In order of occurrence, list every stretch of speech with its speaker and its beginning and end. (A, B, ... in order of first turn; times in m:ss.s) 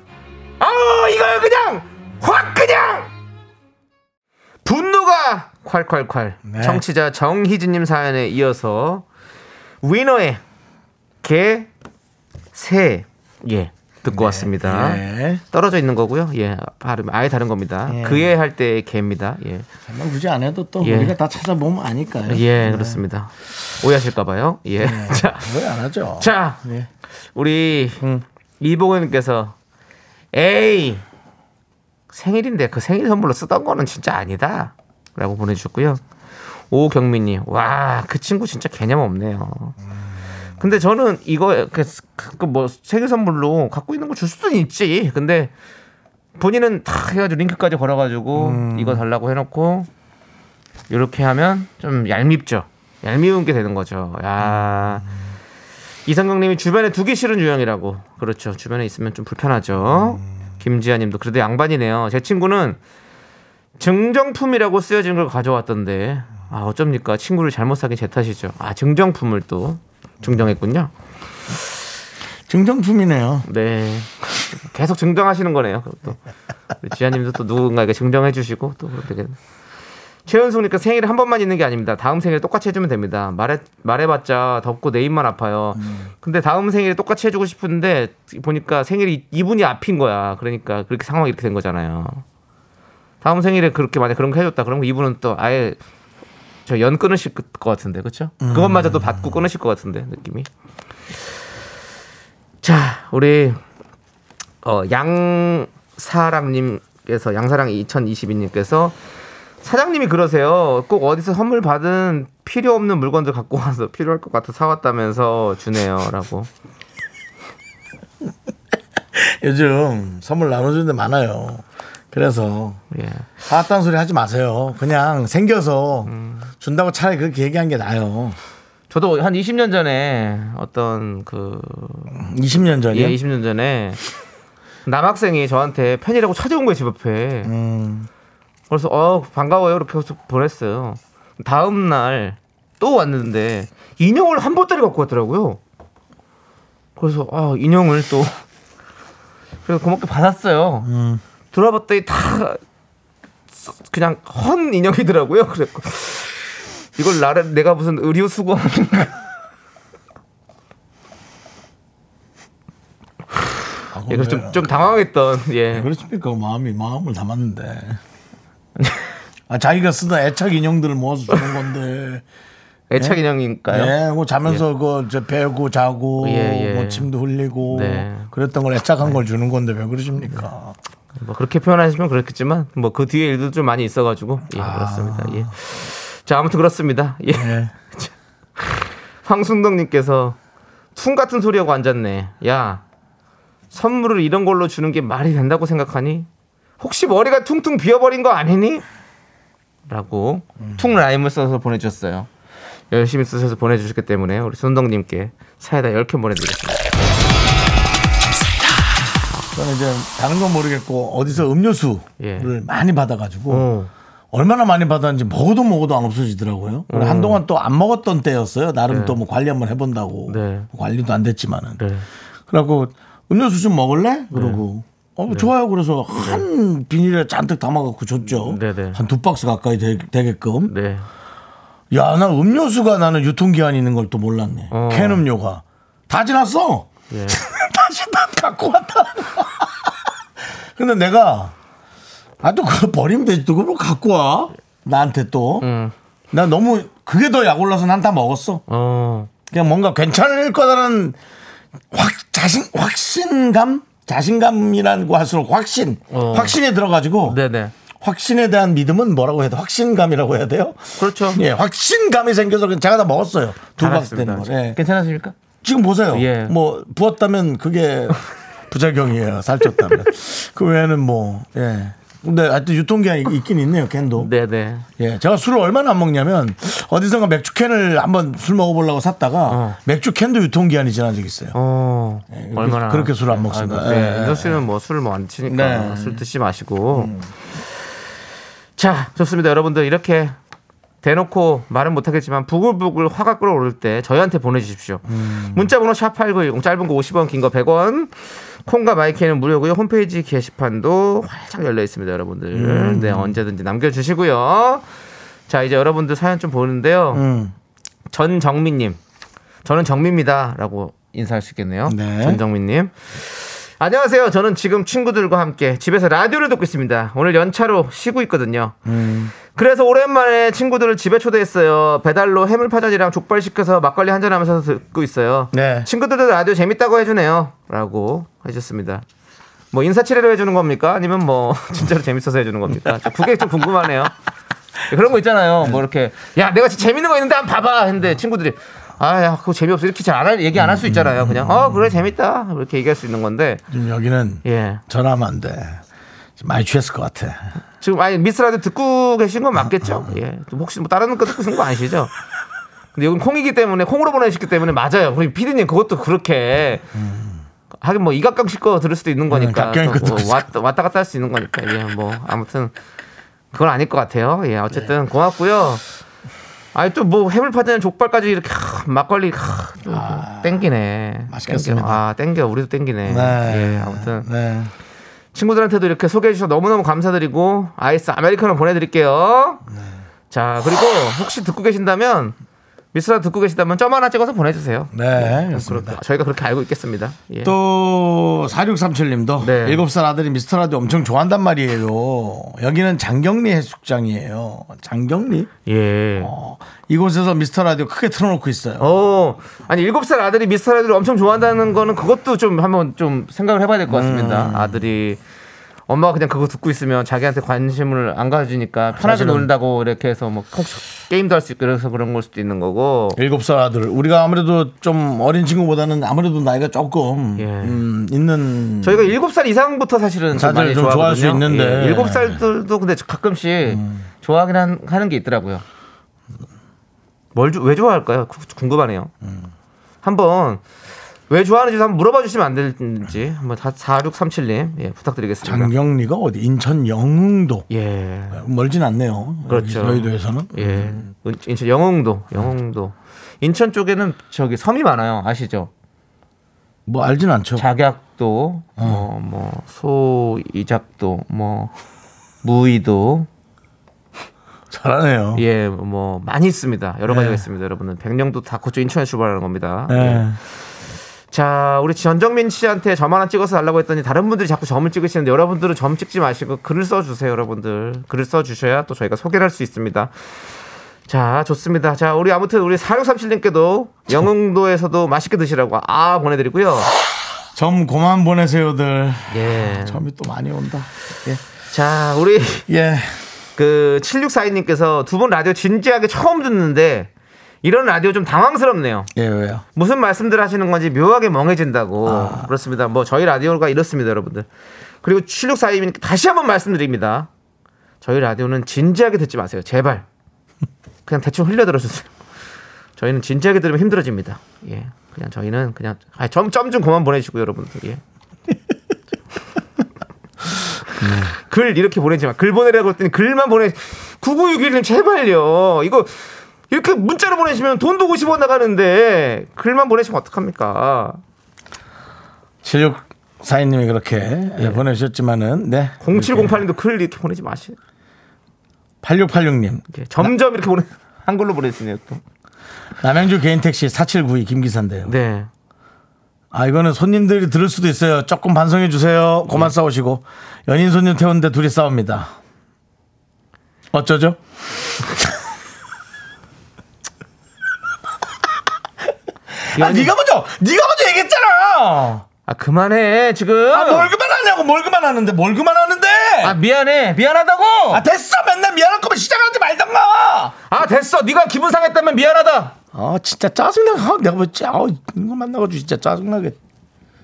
0:00.6-0:03.1 A
0:04.6-0:09.0 A
0:06.4-0:06.8 B
0:09.8-0:10.4 A
0:11.2-0:11.7 A
0:12.5-0:19.6 A
0:14.1-0:15.4 B
0:17.8-0:18.3 B
0:19.9-0:23.0 B
0:20.8-0:21.1 A
0:22.2-0:25.5 A
0:24.8-0:26.9 B
0:26.2-0:26.6 A
0:27.3-0:28.0 A
0:28.6-0:29.5 A
0:30.3-0:31.0 A
0:32.1-0:36.0 A
0:36.7-0:39.8 A
0:40.6-0:45.5 A
0:46.4-0:49.9 A
0:48.3-0:49.0 B
0:50.9-0:55.1 A
0:54.4-0:55.0 B
0:56.0-1:02.8 A
1:03.8-1:10.9 A
1:12.5-1:13.5 B
1:13.4-1:16.2 A
1:16.8-1:19.4 A
1:20.3-1:32.2 A
1:25.8-1:26.1 B
1:33.2-1:35.8 A
1:36.6-1:40.5 A
1:38.4-1:39.3 B
1:42.6-1:43.6 A
1:44.6-1:49.0 A
1:49.6-1:56.5 A
1:59.1-2:02.8 B
2:02.9-2:03.4 A
2:03.4-2:08.4 B
2:06.1-2:06.5 A
2:08.9-2:12.2 A
2:12.1-2:13.2 B
2:12.9-2:14.0 A
2:14.8-2:17.5 A
2:17.4-2:18.1 B
2:18.7-2:25.6 A
2:27.0-2:28.4 A
2:29.6-2:30.9 A
2:30.8-2:31.2 B
2:31.5-2:32.6 A
2:33.6-2:36.4 A
2:37.0-2:39.2 A
2:43.9-2:44.7 B
2:44.1-2:45.9 A
2:45.7-2:48.0 B
2:48.8-2:49.1 A
2:49.5-2:52.2 B
2:52.9-2:54.6 A
2:53.7-3:00.8 B
2:56.2-2:57.1 A
2:57.7-2:58.3 A
3:01.2-3:10.4 A
3:04.5-3:05.5 B
3:07.3-3:07.7 B
3:11.0-3:12.8 A
3:13.7-3:16.3 A
3:16.8-3:18.8 A
3:19.9-3:22.3 A
3:22.9-3:26.8 A
3:29.5-3:33.7 B
3:32.2-3:32.5 A
3:33.5-3:33.9 A
3:34.3-3:41.8 B
3:36.9-3:37.4 A
3:38.9-3:39.2 A
3:40.3-3:40.7 A
3:41.8-3:42.0 A
3:42.5-3:50.7 B
3:44.3-3:44.6 A
3:46.2-3:46.4 A
3:48.2-3:49.0 A
3:50.7-3:51.1 A
3:51.9-3:59.9 B
3:54.7-3:55.2 A
3:57.1-3:57.4 A
4:00.8-4:01.5 B
4:02.4-4:05.7 B
4:05.6-4:05.9 A
4:06.3-4:08.6 B
4:08.7-4:09.3 A
4:09.5-4:11.2 B
4:11.9-4:17.4 B
4:16.1-4:16.6 A
4:17.2-4:17.7 A
4:18.0-4:24.8 B
4:21.0-4:21.4 A
4:23.8-4:25.3 A
4:25.6-4:34.3 B
4:26.1-4:26.5 A
4:34.2-4:34.8 A
4:35.0-4:41.6 B
4:39.5-4:39.8 A
4:41.5-4:47.1 A
4:42.3-4:44.6 B
4:45.5-4:46.2 B
4:46.9-4:47.3 B
4:48.8-4:50.3 A
4:51.0-4:58.1 A
4:55.1-4:55.7 B
4:58.6-5:04.8 A
5:02.5-5:03.4 B
5:05.5-5:07.2 A
5:07.1-5:07.5 B
5:08.1-5:09.0 A
5:09.6-5:18.8 A
5:11.9-5:12.4 B
5:18.8-5:19.3 B
5:19.4-5:29.0 A
5:25.5-5:25.9 B
5:29.7-5:34.1 A
5:34.9-5:43.6 A
5:40.6-5:41.9 B
5:43.7-5:45.8 B
5:44.4-5:44.8 A
5:46.4-5:47.4 B
5:47.8-5:52.1 A
5:49.8-5:50.1 B
5:52.9-5:56.9 A
5:56.9-5:57.4 B
5:57.8-6:02.7 A
5:59.3-6:00.5 B
6:03.5-6:05.8 A
6:06.7-6:14.3 A
6:09.8-6:10.6 B
6:11.3-6:12.0 B
6:13.0-6:14.7 B
6:15.3-6:19.6 A
6:19.7-6:20.0 B
6:20.3-6:22.4 A
6:22.9-6:27.5 A
6:24.9-6:26.0 B
6:27.4-6:35.5 B
6:29.4-6:29.8 A
6:35.6-6:36.3 A
6:36.2-6:38.9 B
6:38.8-6:45.2 A
6:43.9-6:44.8 B
6:45.9-6:53.2 A
6:48.9-6:49.5 B
6:53.1-6:59.1 B
6:57.4-6:57.8 A
6:58.8-7:05.6 A
7:00.3-7:02.4 B
7:03.7-7:04.0 B
7:07.3-7:09.1 A
7:10.0-7:10.6 A
7:11.3-7:15.7 A
7:15.4-7:17.6 B
7:17.7-7:18.4 A
7:18.3-7:21.1 B
7:19.5-7:25.7 A
7:26.8-7:27.6 B
7:27.6-7:31.7 A
7:28.8-7:29.0 B
7:32.4-7:33.3 A
7:34.7-7:35.4 B
7:35.3-7:40.2 A
7:37.1-7:37.4 B
7:39.9-7:40.4 B
7:41.3-7:50.1 A
7:51.1-7:56.9 A
7:57.5-8:01.4 B
7:59.3-8:00.0 A
8:01.7-8:02.7 A
8:02.7-8:03.2 B
8:03.6-8:07.1 A
8:07.6-8:09.1 A
8:09.1-8:09.6 B
8:09.7-8:14.5 A
8:12.0-8:12.5 B
8:15.0-8:17.3 A
8:18.0-8:20.0 A
8:21.0-8:22.1 A
8:23.0-8:28.0 A
8:31.0-8:31.3 B
8:31.2-8:36.1 A
8:36.7-8:41.2 A
8:42.6-8:46.6 B
8:44.6-8:44.8 A
8:46.0-8:47.8 A
8:49.0-8:50.3 B
8:49.9-8:52.2 A
8:53.0-8:55.1 B
8:55.0-8:55.5 A
8:56.5-9:02.3 B
9:03.9-9:04.4 B
9:09.6-9:12.2 B
9:09.7-9:10.1 A
9:12.5-9:14.1 A
9:13.7-9:16.6 B
9:16.4-9:18.0 A
9:17.9-9:20.5 B
9:20.7-9:22.8 A
9:22.9-9:26.6 B